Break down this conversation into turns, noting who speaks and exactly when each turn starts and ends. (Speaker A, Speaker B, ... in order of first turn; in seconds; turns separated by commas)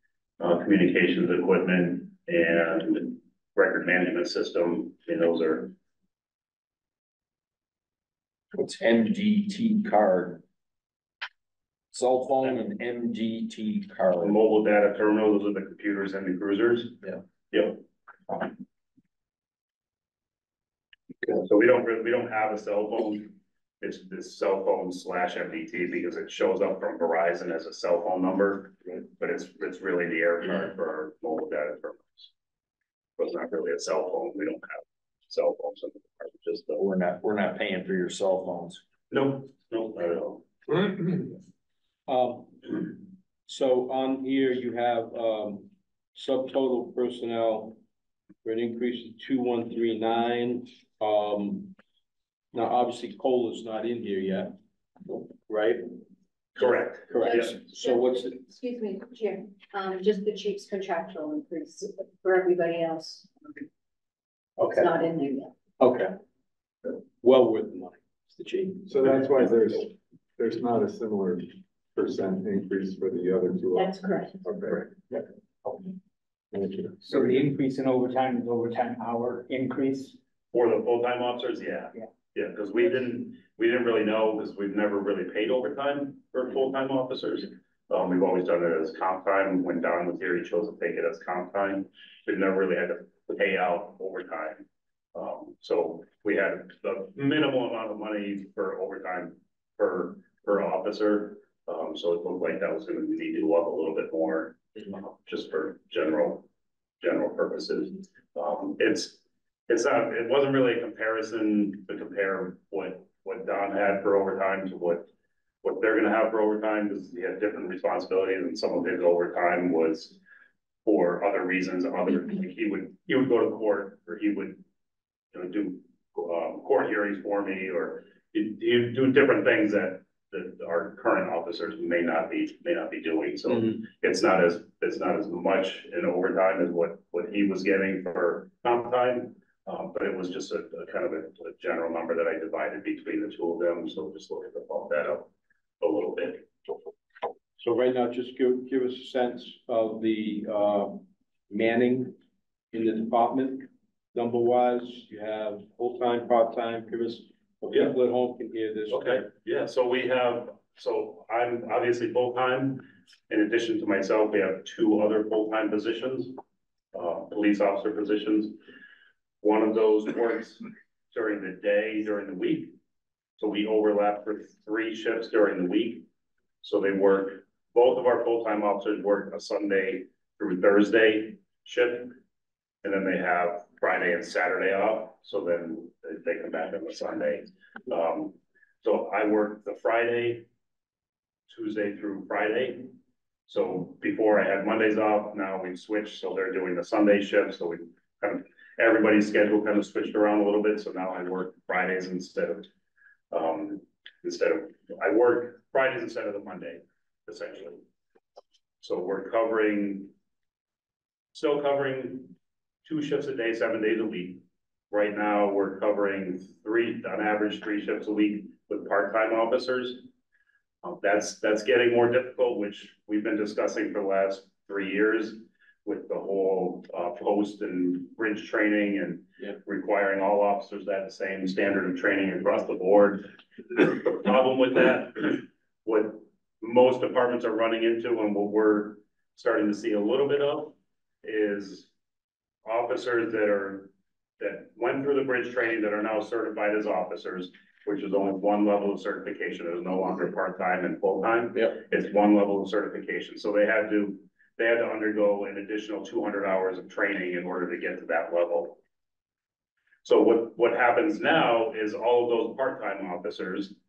Speaker A: 0.4-5.7, Speaker B: 8.5-10.4, Speaker B: 11.9-14.4, Speaker A: 14.2-17.8, Speaker A: 21.4-32.3, Speaker A: 33.2-36.8, Speaker B: 36.8-38.8, Speaker A: 39.1-40.4, Speaker C: 42.1-42.9, Speaker C: 43.5-47.8, Speaker C: 48.4-51.7, Speaker C: 52.5-54.5, Speaker C: 55.5-55.9, Speaker A: 56.5-57.5, Speaker C: 57.1-58.4, Speaker D: 57.2-63.4, Speaker C: 64.6-64.9, Speaker D: 64.6-65.5, Speaker C: 65.8-66.1, Speaker C: 67.2-69.9, Speaker E: 68.8-74.9, Speaker D: 73.7-74.4, Speaker E: 76.5-77.1, Speaker F: 77.0-80.2, Speaker A: 80.5-106.5, Speaker A: 107.0-115.1, Speaker A: 115.6-120.2, Speaker A: 120.8-124.6, Speaker A: 125.3-145.3, Speaker C: 133.5-133.8, Speaker A: 145.8-146.4, Speaker C: 147.6-152.1, Speaker C: 152.7-159.3, Speaker A: 157.7-158.0, Speaker A: 158.9-166.4, Speaker A: 166.9-168.6, Speaker A: 169.4-172.7, Speaker A: 173.4-176.1, Speaker A: 176.6-182.2, Speaker A: 182.8-190.4, Speaker A: 191.5-192.9, Speaker A: 193.5-202.7, Speaker A: 203.3-207.8, Speaker A: 208.8-210.1, Speaker A: 211.3-212.3, Speaker A: 212.8-220.0, Speaker A: 220.8-241.9, Speaker A: 242.7-258.8, Speaker A: 260.0-263.8